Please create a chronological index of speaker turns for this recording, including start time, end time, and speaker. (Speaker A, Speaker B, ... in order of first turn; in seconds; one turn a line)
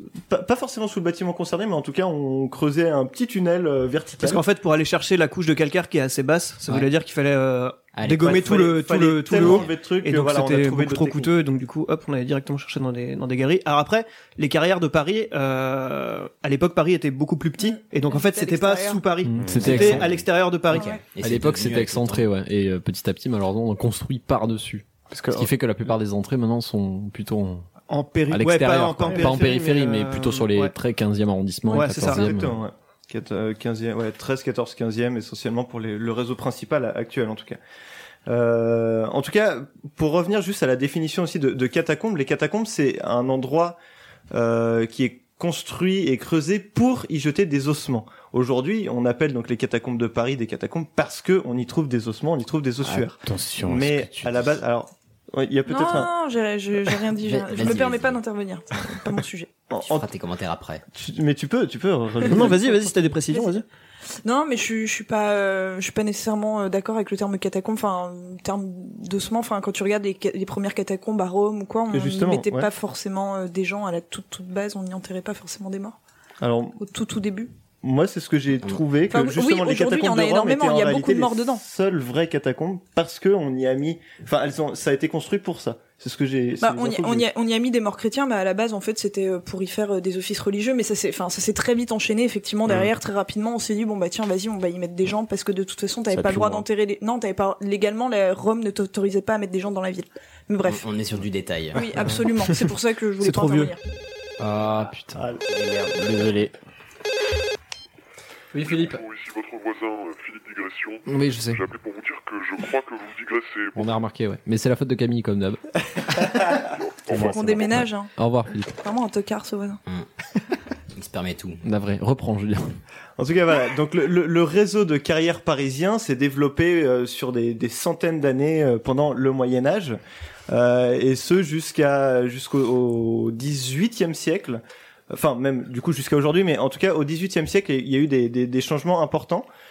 Speaker A: 0.3-4.4
Speaker B: 4.2-20.9
Speaker C: 7.9-8.5
Speaker A: 8.2-11.3
Speaker C: 9.4-9.7
Speaker D: 18.1-19.0
Speaker E: 19.3-20.1
Speaker F: 19.4-20.1
Speaker C: 19.6-20.1
Speaker D: 20.7-21.0
Speaker C: 20.7-22.3
Speaker E: 21.2-27.7
Speaker F: 25.1-25.5
Speaker B: 27.9-30.7
Speaker E: 28.3-32.5
Speaker B: 31.7-32.3
Speaker A: 31.7-37.6
Speaker A: 38.3-43.8
Speaker A: 44.3-56.1
Speaker F: 52.8-54.5
Speaker D: 55.7-59.5
Speaker C: 57.2-58.2
Speaker A: 59.7-60.1
Speaker C: 59.8-60.8
Speaker A: 60.9-62.7
Speaker B: 62.3-63.6
Speaker D: 62.4-63.6
Speaker D: 64.2-76.0
Speaker A: 71.9-72.7
Speaker A: 76.4-76.8
Speaker D: 76.8-77.5
Speaker A: 77.8-87.3
Speaker D: 79.1-81.6
Speaker D: 86.6-100.9
Speaker F: 96.1-96.7
Speaker C: 100.7-101.8
Speaker D: 101.7-103.8
Speaker B: 103.2-103.7
Speaker E: 104.4-105.2
Speaker A: 105.2-105.4
Speaker F: 105.4-106.5
Speaker E: 108.5-109.0
Speaker G: 108.7-114.0
Speaker E: 111.1-111.6
Speaker E: 113.8-115.6
Speaker G: 116.6-117.8
Speaker D: 117.2-118.1
Speaker E: 117.2-118.7
Speaker D: 118.8-119.8
Speaker C: 120.9-121.6
Speaker E: 121.7-122.8
Speaker A: 123.2-139.5